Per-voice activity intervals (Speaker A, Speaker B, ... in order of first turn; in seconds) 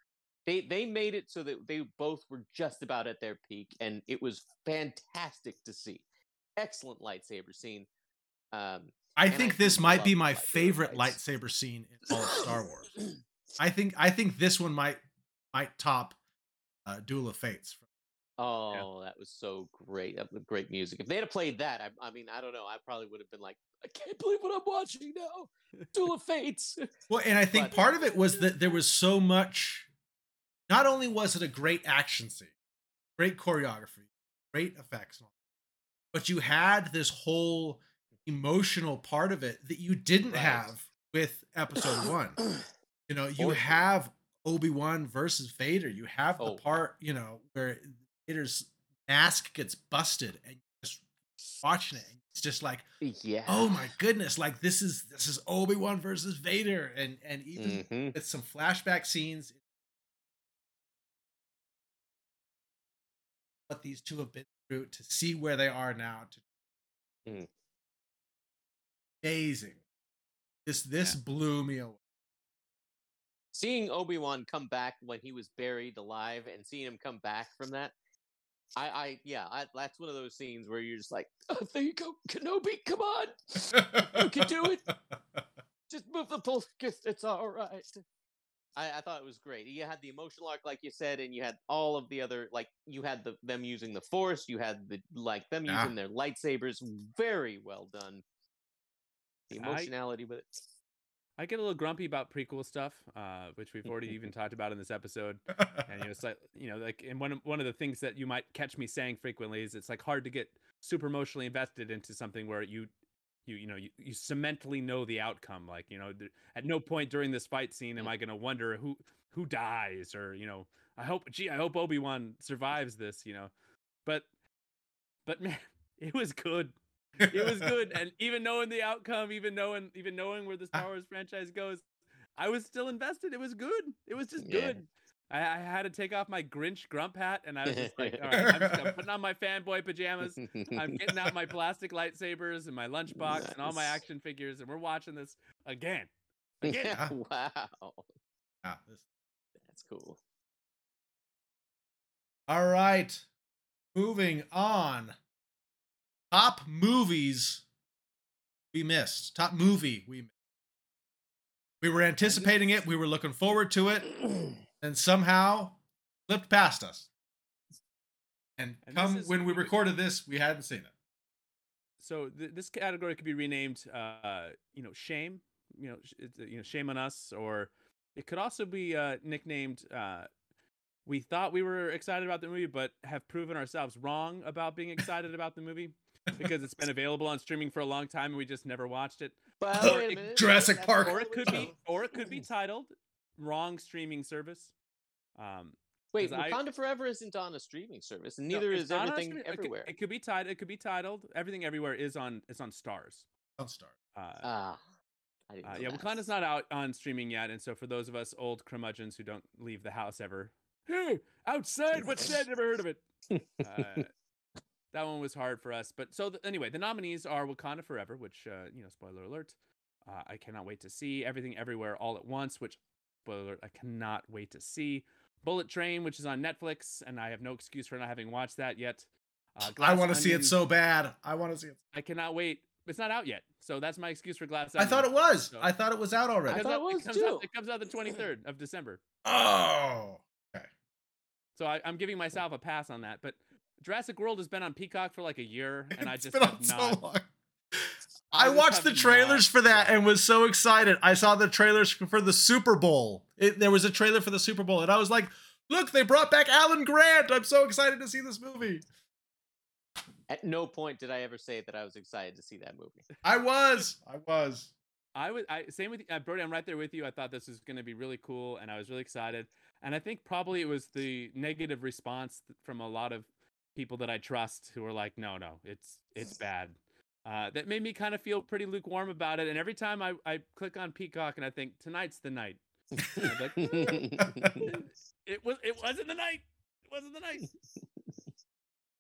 Speaker A: 0.5-6.0, 6.6-7.9, 8.5-11.2, 12.1-13.1, 18.4-26.9, 27.5-28.8, 40.3-40.7, 41.8-42.6, 43.4-43.9, 46.4-46.6, 53.0-53.9, 57.6-58.2, 73.5-77.9, 78.8-84.9, 85.9-88.0, 88.8-98.2, 99.5-100.7, 134.4-134.8, 137.7-138.6, 140.4-140.8, 143.2-144.0, 146.6-148.1, 149.7-150.2, 162.2-162.6, 164.1-164.5, 189.6-192.3, 196.1-199.9, 204.4-204.8, 205.5-206.1, 213.3-214.0, 236.5-237.5, 260.3-263.1, 283.0-284.7
Speaker B: 9.2-13.0, 13.6-15.0, 15.5-16.2, 16.9-17.8, 27.1-29.9, 30.7-32.5, 33.2-35.3, 36.1-42.5, 43.1-51.1, 51.6-52.9, 53.5-59.6, 63.7-66.4, 69.2-69.8, 70.7-72.0, 83.7-84.5, 95.7-95.9, 105.6-105.9, 127.2-127.7, 138.4-138.9, 148.6-149.0, 152.5-153.3, 153.9-155.2, 156.3-157.6, 158.7-160.3, 161.8-164.2, 164.8-167.1, 168.6-170.9, 189.8-191.7, 203.6-203.9, 229.6-231.8, 234.8-236.6, 239.2-240.7, 246.0-258.8, 263.2-264.7, 284.4-284.7
Speaker C: 99.6-99.9, 101.4-112.9, 113.5-123.5, 125.3-131.9, 132.4-146.1, 146.6-147.0, 168.8-169.7, 172.0-180.3, 181.1-189.9, 191.1-194.7, 195.4-196.6, 198.5-203.3, 204.2-204.5, 205.6-213.0, 213.6-214.1, 214.9-219.6, 220.1-230.6, 231.9-235.7, 236.5-239.0, 241.6-247.0, 248.3-250.1, 265.2-282.6, 283.1-284.0, 284.6-287.5